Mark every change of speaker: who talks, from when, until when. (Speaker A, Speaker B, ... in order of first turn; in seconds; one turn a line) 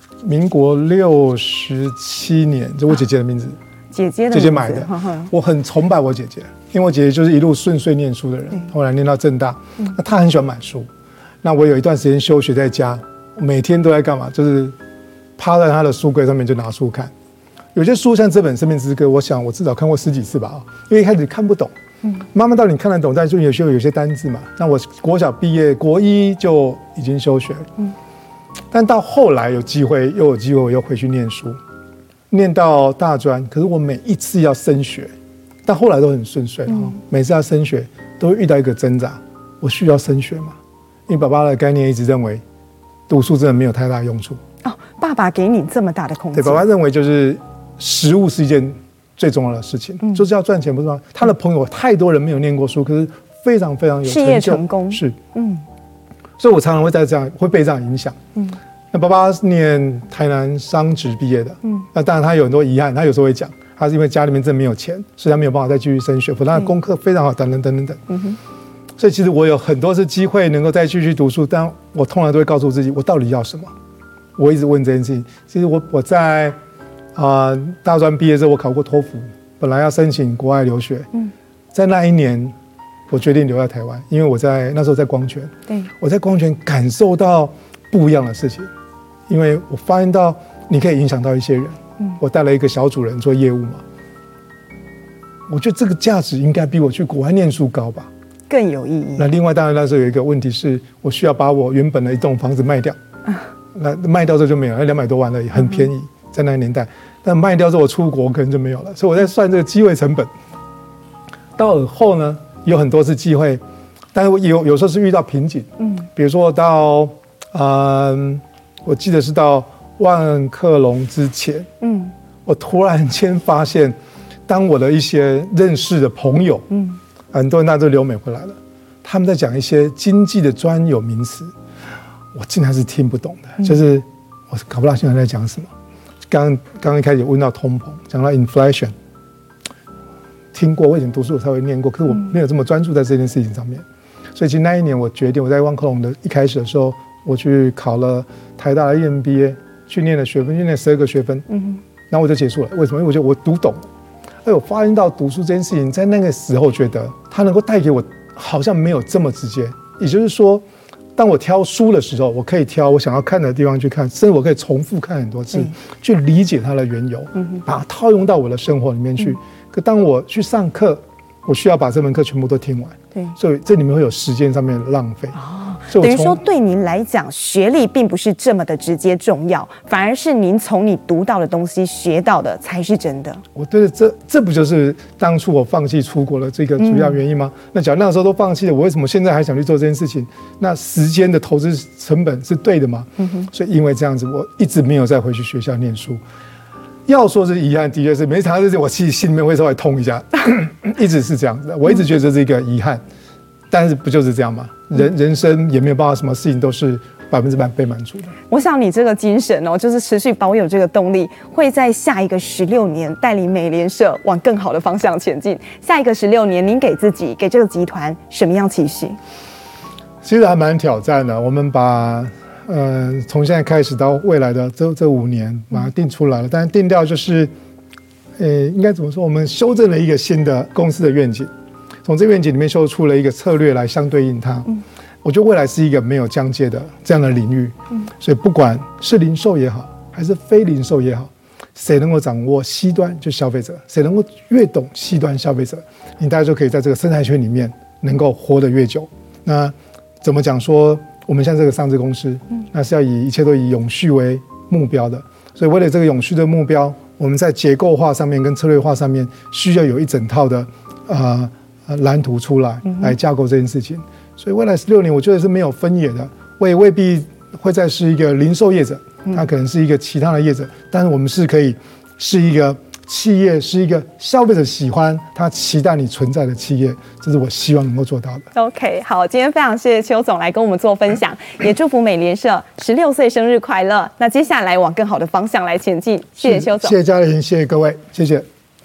Speaker A: 0.2-3.6
Speaker B: 3.9-5.3
Speaker A: 4.3-10.9
Speaker A: 11.4-14.8
Speaker A: 15.4-17.1
Speaker A: 17.8-21.7
Speaker A: 22.2-27.7
Speaker A: 28.7-31.6
Speaker A: 32.3-35.1
Speaker A: 35.6-40.6
Speaker A: 41.1-42.4
Speaker A: 43.1-44.4
Speaker B: 44.6-46.6
Speaker A: 46.3-55.2
Speaker B: 54.0-55.6
Speaker A: 56.4-58.2
Speaker A: 58.9-68.0
Speaker B: 68.1-68.4
Speaker A: 69.0-73.7
Speaker A: 74.4-76.6
Speaker A: 77.2-81.1
Speaker A: 81.7-82.5
Speaker A: 83.1-88.7
Speaker A: 89.3-93.8
Speaker A: 95.5-98.1
Speaker B: 98.5-99.3
Speaker A: 99.2-103.0
Speaker A: 103.7-110.3
Speaker A: 111.6-113.6
Speaker A: 114.1-121.7
Speaker B: 121.8-122.1
Speaker A: 122.5-124.0
Speaker A: 124.5-126.7
Speaker B: 126.7-127.0
Speaker A: 127.3-131.5
Speaker A: 132.3-135.7
Speaker A: 136.3-138.9
Speaker A: 140.5-151.5
Speaker A: 152.1-153.9
Speaker A: 154.4-160.7
Speaker A: 161.2-175.4
Speaker B: 175.4-183.4
Speaker A: 175.9-176.4
Speaker A: 183.6-196.2
Speaker B: 186.8-187.2
Speaker A: 197.1-203.0
Speaker A: 203.7-208.3
Speaker B: 208.5-219.2
Speaker A: 220.2-227.5
Speaker A: 228.4-231.5
Speaker A: 232.0-278.5
Speaker B: 278.5-287.0
Speaker A: 286.4-288.5